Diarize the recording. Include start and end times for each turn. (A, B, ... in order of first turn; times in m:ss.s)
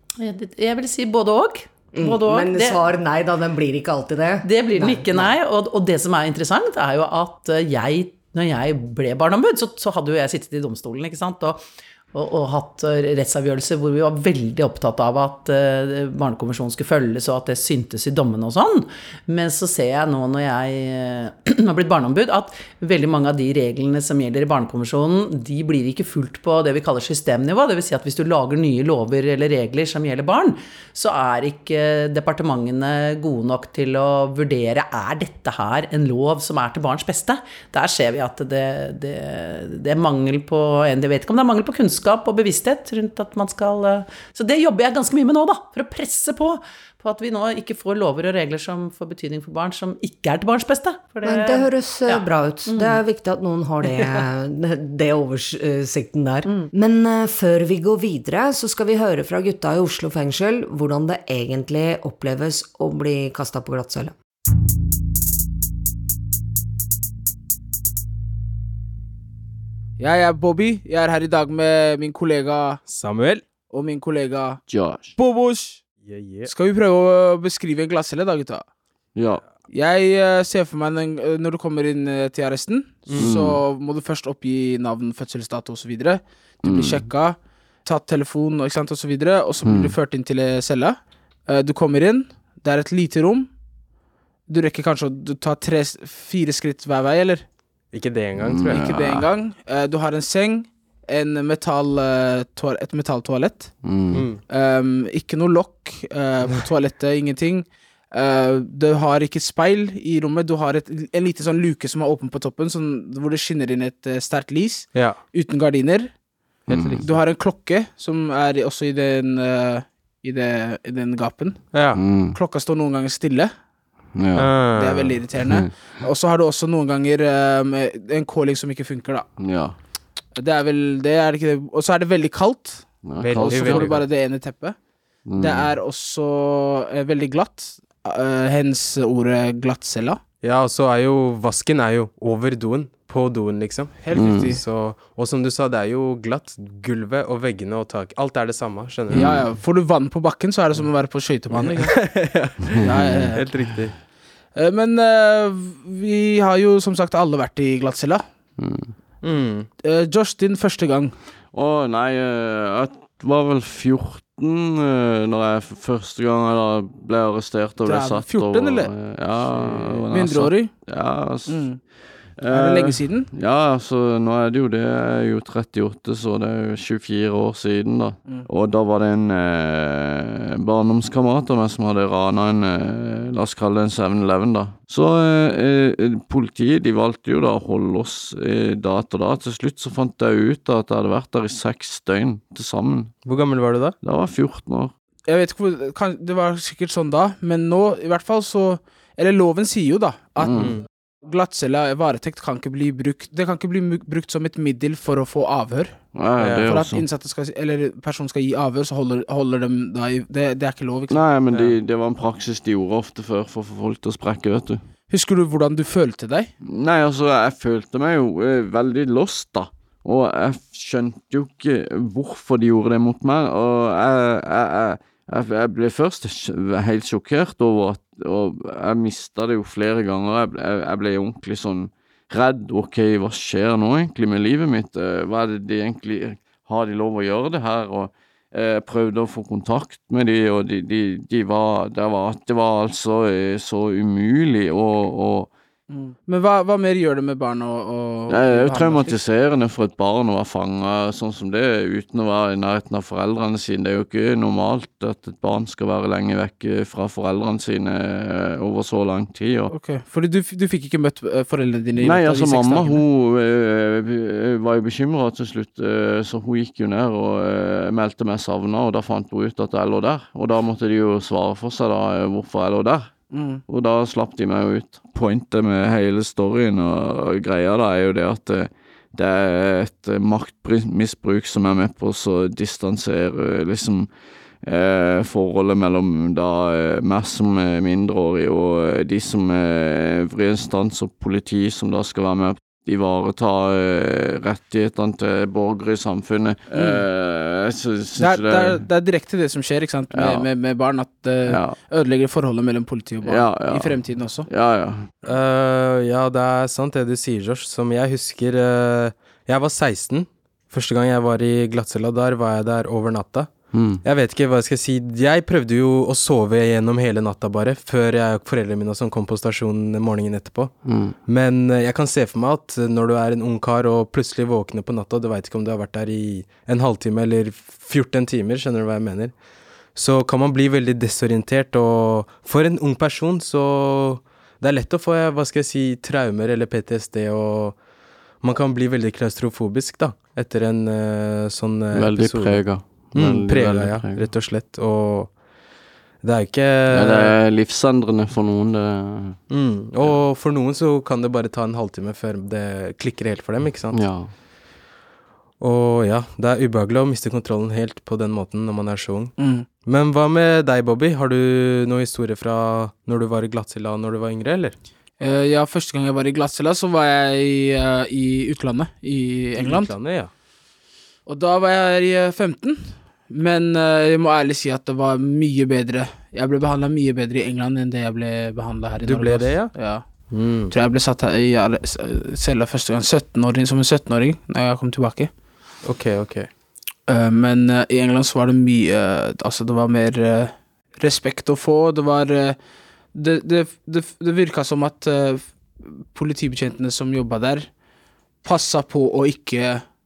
0:00.2-0:02.8 A
0:02.0-0:05.3 B
0:04.4-0:11.6 A
0:12.1-0:53.0 A
0:51.2-1:04.1 B
0:53.9-0:54.2 A
0:56.5-0:56.7 A
1:10.0-1:12.8 C
1:12.9-1:13.4 D
1:13.7-1:14.6 C
1:14.7-1:15.2 E
1:15.2-1:15.8 C
1:16.0-1:16.5 D
1:16.5-1:18.7 C
1:19.2-1:19.4 E
1:19.7-1:33.5 C
1:23.1-1:23.4 D
1:23.2-1:23.6 E
1:26.6-1:27.1 E
1:29.6-1:30.0 E
1:34.5-1:37.5 C
1:37.9-1:38.8 D
1:38.4-1:39.3 E
1:38.7-1:43.8 C
1:43.8-1:44.2 E
1:44.1-1:44.4 D
1:44.5-1:56.2 C
1:54.9-1:55.2 D
1:56.7-1:57.2 D
1:56.7-1:57.0 E
1:57.0-2:01.8 C
2:01.7-2:02.0 D
2:01.9-2:02.4 E
2:02.3-2:03.6 C
2:04.1-2:04.7 E
2:04.4-2:05.2 D
2:04.8-2:09.3 C
2:05.4-2:06.0 E
2:09.4-2:09.8 E
2:10.3-2:14.8 C
2:13.0-2:13.9 E
2:13.2-2:14.0 D
2:15.2-2:15.8 E
2:15.4-2:20.2 C
2:20.4-2:29.3 D
2:24.1-2:24.6 C
2:24.1-2:24.5 E
2:29.1-2:29.5 E
2:29.2-2:32.0 C
2:31.5-2:34.0 D
2:32.8-2:33.4 C
2:34.5-2:38.2 C
2:38.6-2:39.0 E
2:39.2-2:39.7 D
2:39.8-2:41.2 C
2:41.5-3:13.2 E
2:47.8-2:48.9 C
2:50.1-2:50.8 C
2:51.5-2:51.8 C
2:52.5-2:53.3 C
3:13.2-3:14.0 D
3:14.0-3:14.9 E
3:15.3-3:31.2 C
3:20.4-3:20.7 E
3:20.6-3:20.8 D
3:26.1-3:27.1 E
3:26.4-3:26.8 D
3:31.1-3:34.9 E
3:31.5-3:31.8 D
3:35.1-3:36.5 C
3:36.6-4:05.5 E
4:05.9-4:09.2 C
4:08.3-4:19.7 E
4:19.7-4:23.0 C
4:22.0-4:44.1 E
4:33.3-4:33.6 C
4:44.6-4:58.9 E
4:56.7-4:57.0 C
4:58.2-5:04.5 C
5:00.1-5:00.5 E
5:01.5-5:01.8 E
5:03.2-5:05.1 E
5:05.2-5:29.4 D
5:13.7-5:14.0 E
5:20.8-5:21.2 E
5:29.9-5:37.8 D
5:38.4-5:45.4 D
5:41.9-5:44.3 E
5:46.2-5:47.4 D
5:46.9-5:49.4 E
5:49.5-5:54.2 D
5:53.9-5:54.3 E
5:55.6-6:04.8 D
5:59.4-5:59.6 C
6:05.2-6:10.0 C
6:09.6-6:10.3 D
6:11.3-6:20.0 C
6:19.0-6:19.8 D
6:20.3-6:20.7 D
6:20.7-6:25.3 C
6:25.8-6:26.5 D
6:27.1-6:32.6 C
6:33.1-6:37.8 C
6:38.4-6:39.9 C